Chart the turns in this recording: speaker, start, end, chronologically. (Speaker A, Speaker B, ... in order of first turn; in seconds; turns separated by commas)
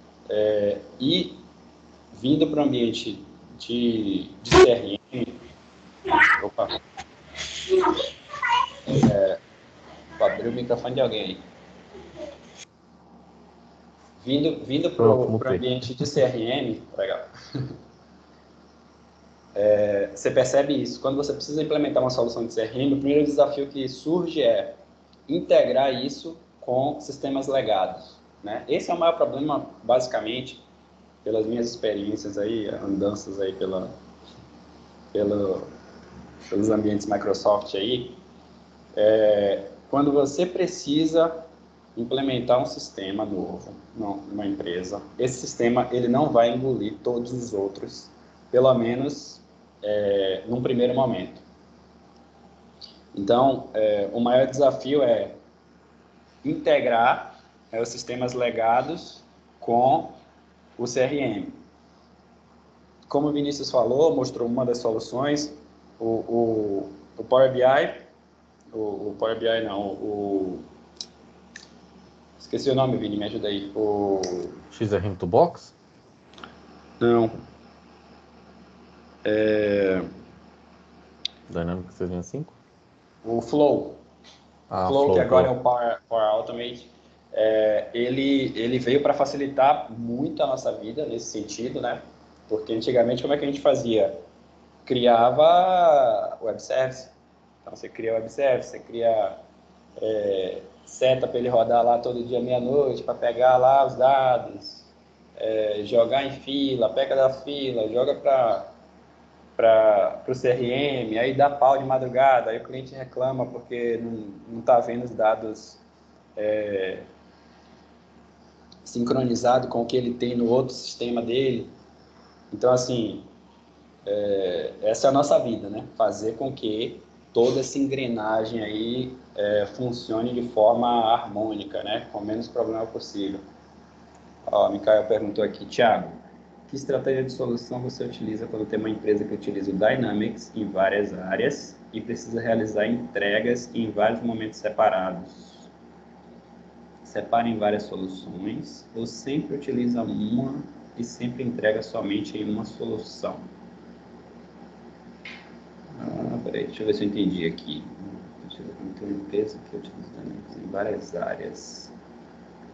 Speaker A: 0.3-1.4, Speaker A: 2.1-5.4, Speaker A: 6.3-6.7, Speaker A: 8.9-9.4, Speaker A: 10.2-11.4, Speaker A: 14.2-17.3, Speaker B: 15.0-16.1, Speaker A: 19.5-30.6, Speaker A: 31.2-33.9, Speaker A: 35.1-35.7, Speaker A: 36.5-38.2, Speaker A: 38.9-51.4, Speaker A: 53.1-55.4, Speaker A: 56.4-60.2, Speaker A: 60.8-61.6, Speaker A: 63.1-68.0, Speaker A: 68.7-70.6, Speaker A: 72.4-74.6, Speaker B: 74.7-75.7, Speaker A: 77.0-77.3, Speaker A: 79.2-80.1, Speaker B: 81.5-82.5, Speaker A: 83.2-84.0, Speaker B: 84.7-85.5, Speaker A: 84.8-94.2, Speaker A: 94.8-97.1, Speaker A: 97.6-99.4, Speaker A: 100.0-108.7, Speaker A: 109.6-115.8, Speaker A: 116.3-117.0, Speaker A: 118.8-121.7, Speaker A: 122.5-123.3, Speaker A: 124.0-133.4, Speaker A: 134.5-145.7, Speaker A: 147.0-153.5, Speaker A: 156.0-161.9